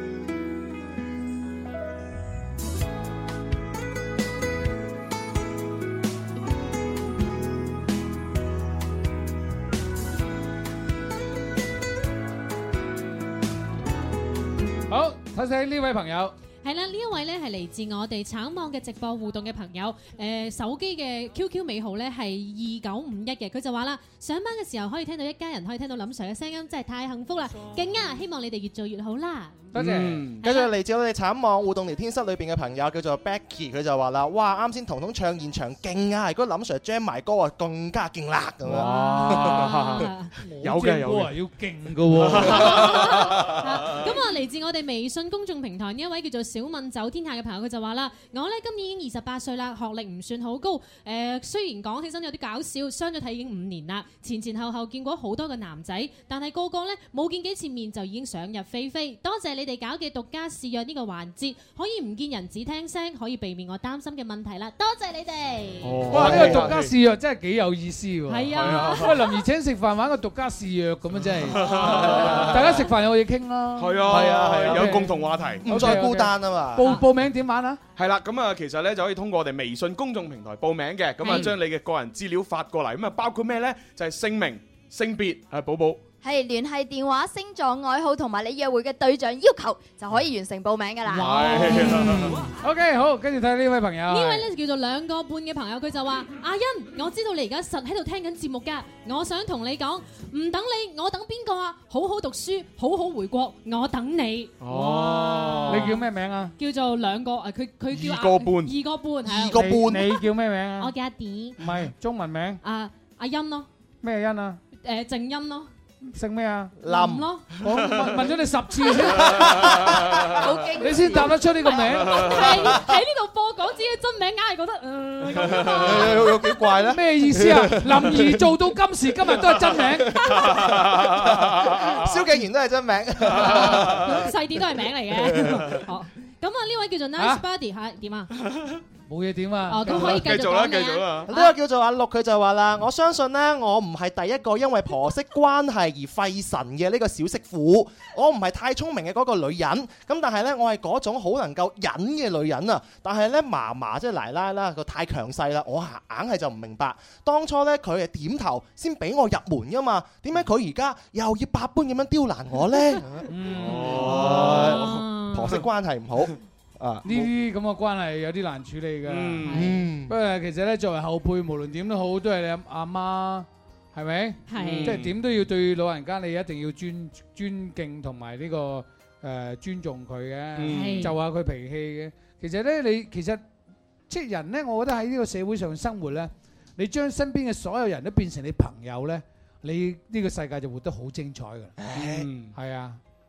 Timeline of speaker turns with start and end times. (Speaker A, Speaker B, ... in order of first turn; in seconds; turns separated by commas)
Speaker A: 14.9-16.4, Speaker B: 16.6-29.7, Speaker A: 29.7-30.2, Speaker C: 29.8-30.4, Speaker B: 30.4-30.7, Speaker D: 30.4-39.7, Speaker C: 38.7-41.4, Speaker B: 38.8-40.3, Speaker A: 40.4-42.9, Speaker C: 42.1-43.6, Speaker B: 42.5-65.9, Speaker C: 65.8-66.9, Speaker A: 66.1-77.8, Speaker B: 68.3-69.4, Speaker C: 68.5-69.2, Speaker C: 71.4-72.7, Speaker C: 73.8-76.0, Speaker D: 74.0-75.1, Speaker D: 75.6-76.9, Speaker C: 78.0-86.0, Speaker B: 81.2-81.5, Speaker E: 86.2-91.6, Speaker C: 91.1-92.5, Speaker A: 91.2-94.5, Speaker B: 94.1-106.0, Speaker C: 104.6-106.0, Speaker A: 105.7-106.5, Speaker B: 106.6-109.7, Speaker C: 107.9-108.8, Speaker D: 109.3-110.1, Speaker A: 109.5-110.9, Speaker B: 110.8-111.6, Speaker A: 111.6-112.6, Speaker B: 112.6-113.7, Speaker A: 114.0-114.6, Speaker B: 114.8-115.7, Speaker A: 116.1-116.8, Speaker D: 116.8-117.3, Speaker B: 116.8-117.5, Speaker A: 117.6-119.9, Speaker D: 119.4-120.0, Speaker E: 120.2-121.3, Speaker A: 120.8-122.4, Speaker B: 122.0-126.8, Speaker D: 125.6-128.3, Speaker A: 126.9-130.3, Speaker D: 130.2-134.2, Speaker C: 130.4-132.1, Speaker C: 133.3-134.1, Speaker B: 133.4-138.3, Speaker A: 139.1-140.2, Speaker B: 139.7-141.6, Speaker C: 139.9-141.3, Speaker D: 141.3-167.3, Speaker A: 163.3-164.4, Speaker C: 163.5-165.6, Speaker B: 164.3-165.5, Speaker A: 167.0-169.6, Speaker C: 169.1-169.7, Speaker B: 169.4-169.8, Speaker D: 169.5-170.1, Speaker A: 170.1-183.4, Speaker B: 174.5-175.0, Speaker C: 174.5-175.1, Speaker C: 180.6-181.1, Speaker B: 180.7-181.2, Speaker A: 184.1-191.9, Speaker D: 191.8-192.3, Speaker C: 191.9-192.5, Speaker A: 192.5-193.0